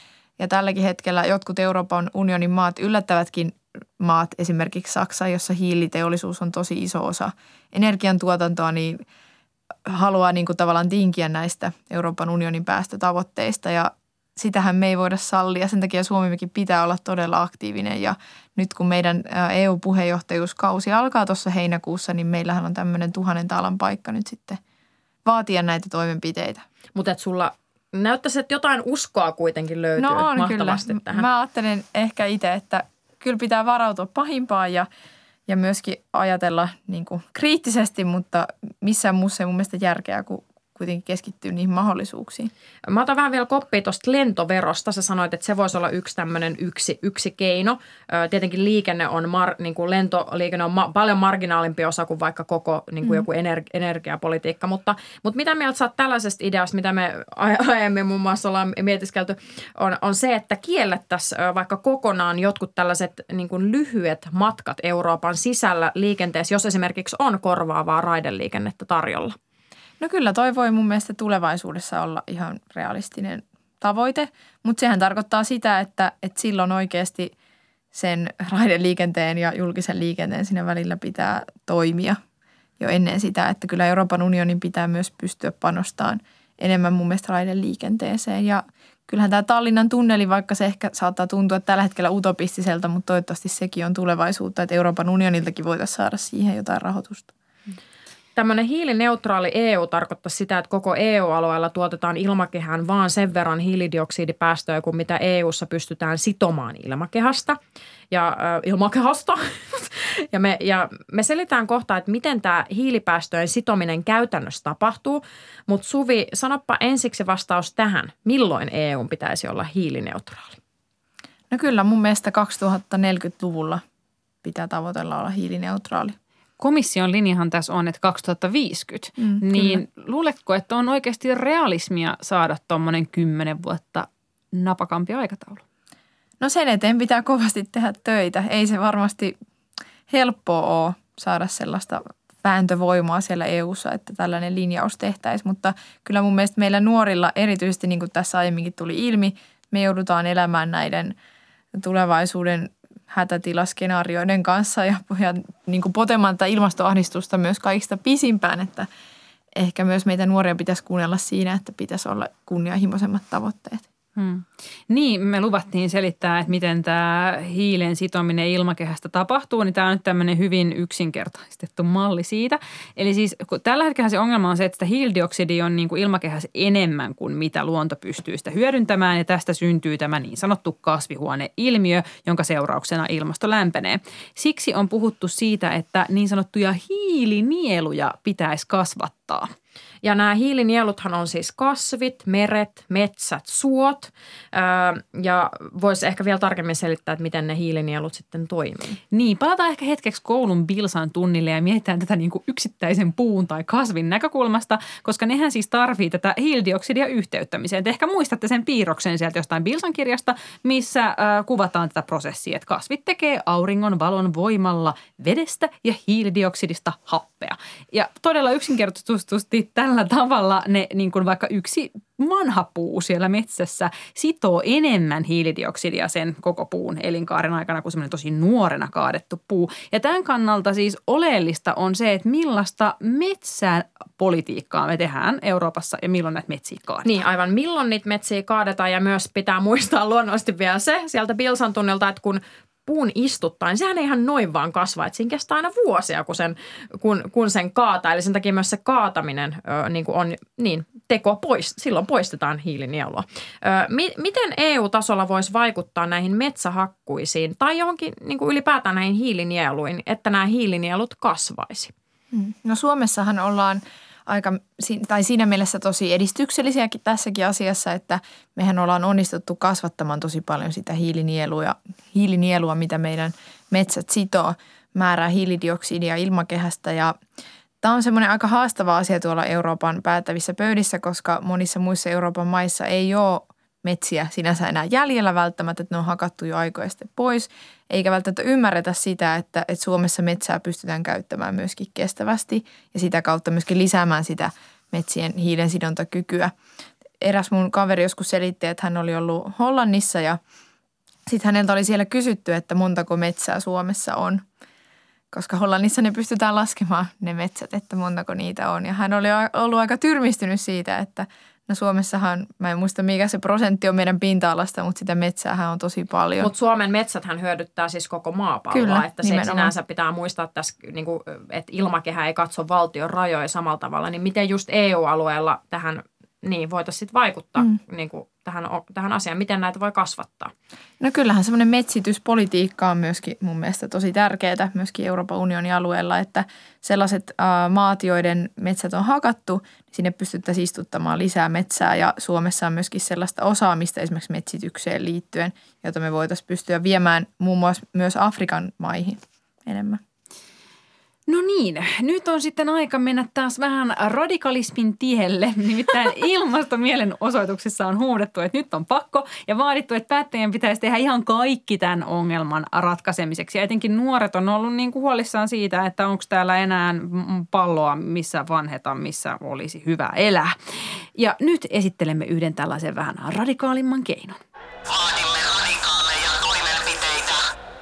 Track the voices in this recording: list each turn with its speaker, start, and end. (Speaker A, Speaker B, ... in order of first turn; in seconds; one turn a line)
Speaker A: 0.4-9.0
Speaker A: 9.9-24.6
Speaker A: 25.2-26.6
Speaker B: 26.9-31.2
Speaker A: 30.0-34.9
Speaker A: 35.5-42.5
Speaker B: 42.9-69.4
Speaker A: 70.0-77.3
Speaker A: 77.9-82.2
Speaker A: 82.8-97.3
Speaker B: 98.4-107.6
Speaker B: 108.1-120.6
Speaker A: 121.5-123.8
Speaker A: 124.4-126.2
Speaker C: 126.6-135.6
Speaker A: 129.2-129.8
Speaker A: 136.4-139.3
Speaker A: 140.1-151.1
Speaker A: 151.8-158.9
Speaker A: 159.6-163.8
Speaker C: 164.2-189.5
Speaker B: 190.0-199.0
Speaker C: 199.1-237.1
Speaker B: 237.0-261.9
Speaker A: 262.3-277.1
Speaker A: 277.8-296.5
Speaker A: 297.2-300.4
Speaker A: 301.3-304.4
Speaker A: 305.3-316.5
Speaker B: 316.4-330.5
Speaker A: 318.7-319.7
Speaker A: 331.0-350.0
Speaker C: 351.3-370.5
Speaker C: 371.1-374.4